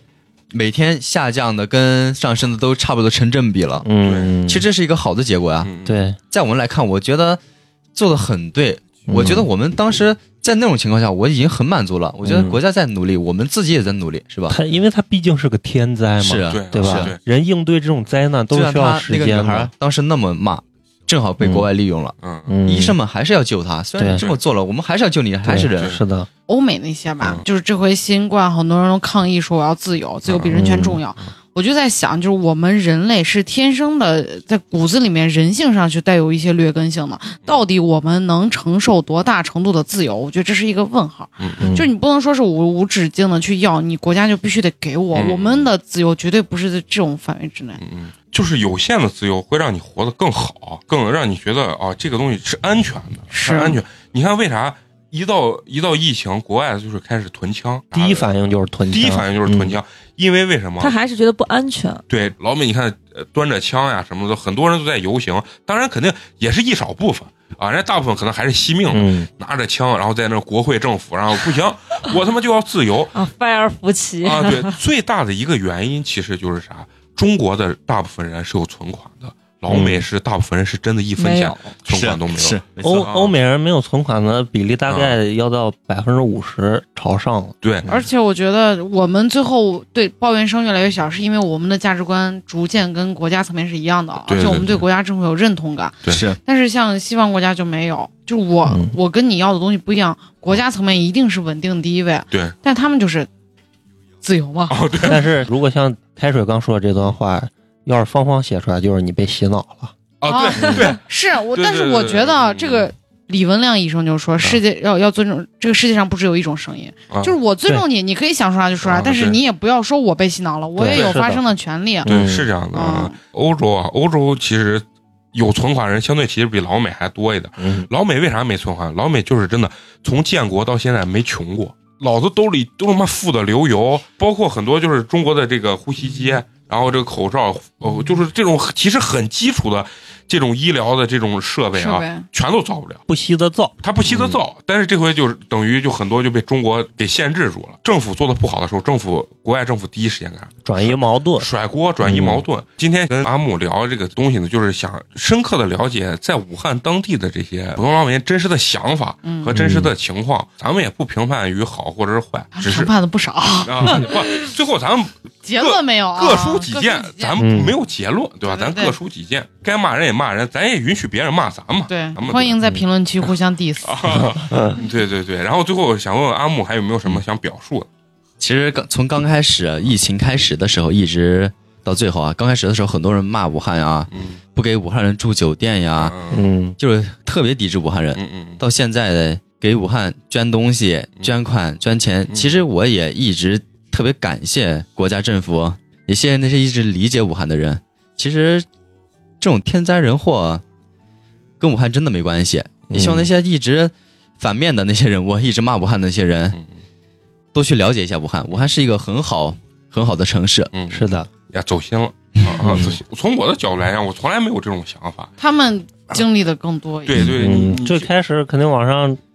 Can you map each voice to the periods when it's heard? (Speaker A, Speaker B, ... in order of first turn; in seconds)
Speaker A: 0.5-3.9, 4.5-5.7, 6.3-7.4, 7.9-14.6, 16.2-17.1, 18.5-22.1, 22.6-26.0, 81.9-83.1, 96.0-96.4, 178.4-186.2, 186.8-198.7, 199.4-200.6, 201.6-206.6, 207.5-210.7
Speaker B: 3.8-4.7, 5.8-6.2, 9.1-9.5, 12.2-12.6, 14.5-19.7, 21.4-21.7, 22.5-23.0, 24.0-24.2, 25.4-26.3, 30.5-31.0, 41.6-41.9, 57.9-59.8, 68.9-69.3, 79.7-80.0, 82.8-88.0, 98.7-99.0, 105.0-109.9, 120.8-121.4, 122.0-122.5, 127.6-127.9, 143.1-144.4, 150.6-151.5, 152.0-152.4, 159.5-159.9, 167.4-167.7, 186.3-186.8, 202.9-203.3, 210.9-211.3, 212.6-213.0, 217.2-219.2
Speaker C: 4.0-4.3, 5.6-6.0, 16.5-17.2, 22.2-22.5, 30.2-30.6, 45.1-45.7, 47.8-58.3, 58.9-60.9, 62.1-73.1, 74.2-83.3, 84.9-85.2, 87.6-87.9, 94.2-94.8, 104.7-105.2, 110.2-112.9, 118.8-119.4, 120.9-121.2, 122.0-143.0, 143.8-162.9, 163.6-172.6, 173.8-177.9, 184.1-184.4, 186.0-186.4, 188.2-188.6, 210.7-215.3, 217.0-218.1
Speaker D: 26.5-47.8, 53.3-53.8, 87.9-103.3, 104.2-105.2, 110.3-122.1, 122.7-123.1, 141.7-142.2, 159.2-159.5, 162.6-164.2, 165.4-167.4, 168.4-168.9, 171.9-174.2, 215.4-217.3
Speaker E: 60.8-62.0, 73.1-74.8, 81.2-81.7